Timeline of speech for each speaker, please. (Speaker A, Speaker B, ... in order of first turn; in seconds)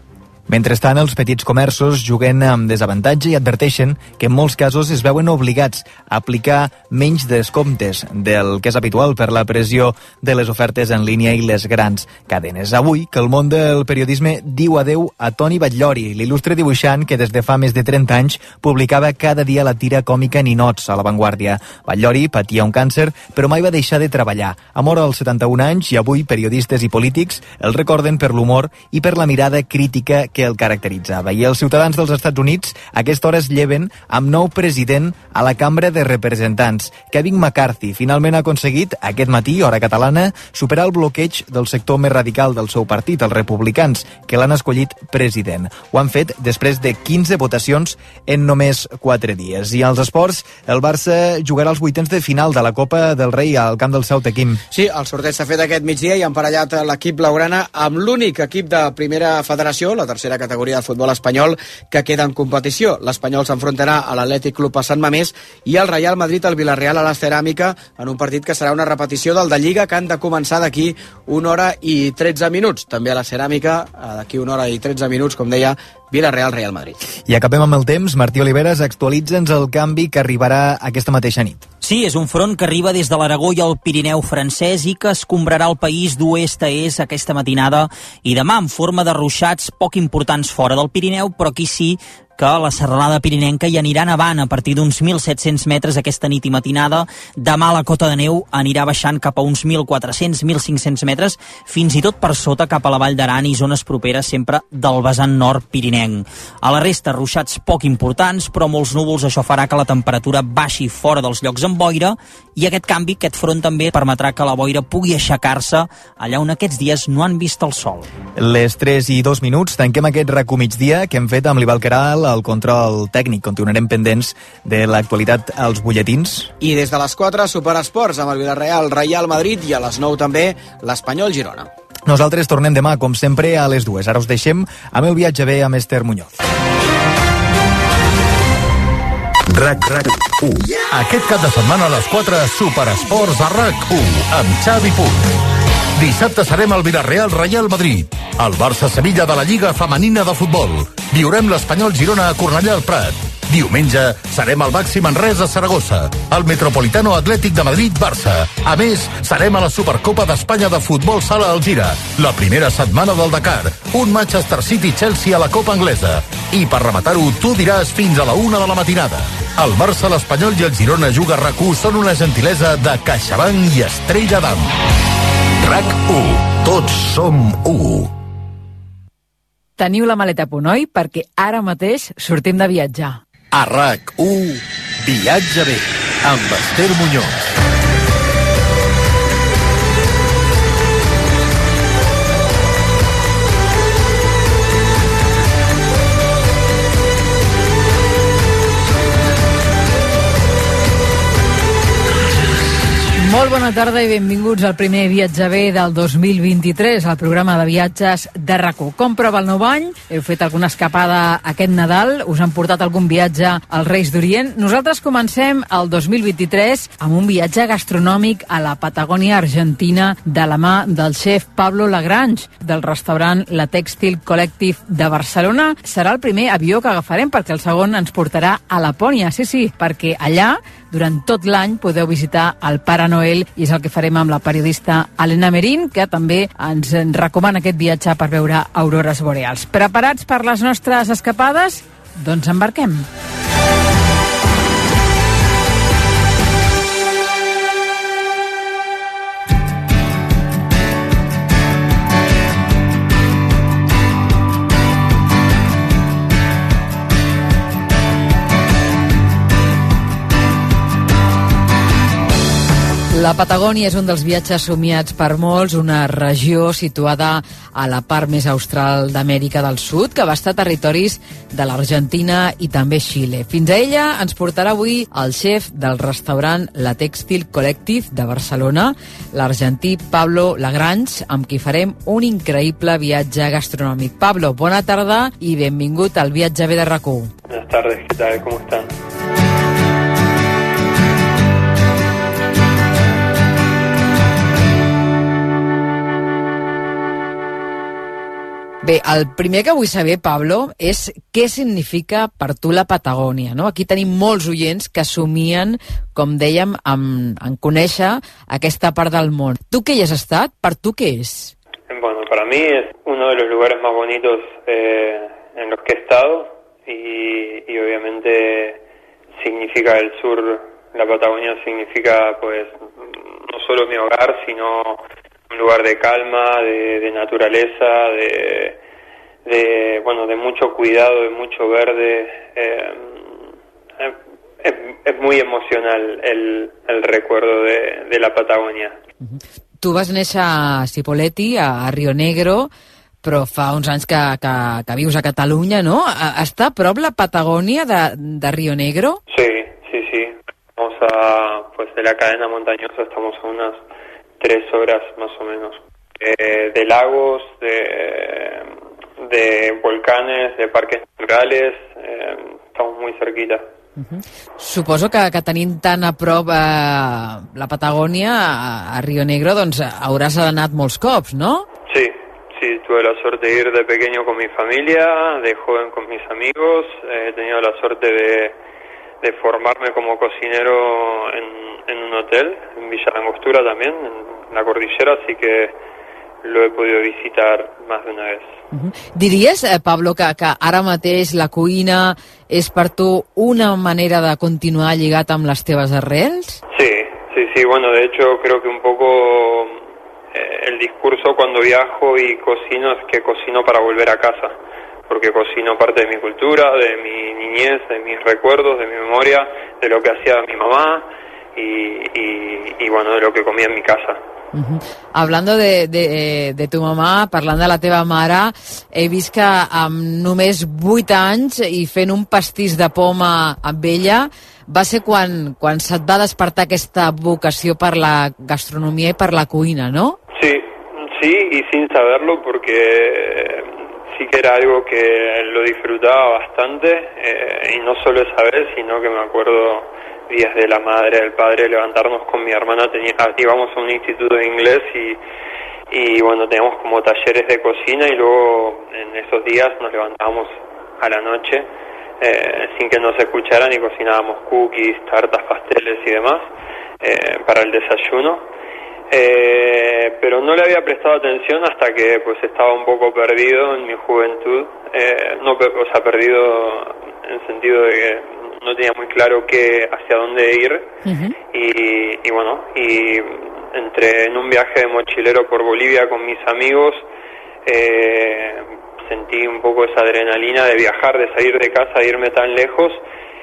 Speaker A: 0.5-54.6, 77.2-81.6, 118.3-126.5, 132.0-136.3
Speaker B: 54.7-77.0, 126.6-131.7
Speaker C: 81.8-118.1
Speaker D: 139.5-145.2, 146.0-174.7, 175.6-178.1, 183.5-187.5
Speaker E: 179.8-183.2, 203.2-243.1, 263.1-287.3, 298.8-311.5, 339.2-342.7, 343.2-349.2, 364.0-371.6, 388.7-396.6, 414.5-430.2, 471.0-471.4
Speaker F: 287.5-288.9, 311.9-318.8, 319.4-328.8, 329.4-333.4, 334.0-339.0, 349.3-353.8, 354.4-363.6, 371.9-378.5, 379.2-385.8, 386.4-388.6, 396.7-399.8, 400.3-404.5, 405.1-414.2, 430.3-445.2, 445.9-451.7, 452.2-456.5, 457.0-458.4, 459.1-471.0, 471.5-477.1, 477.6-483.0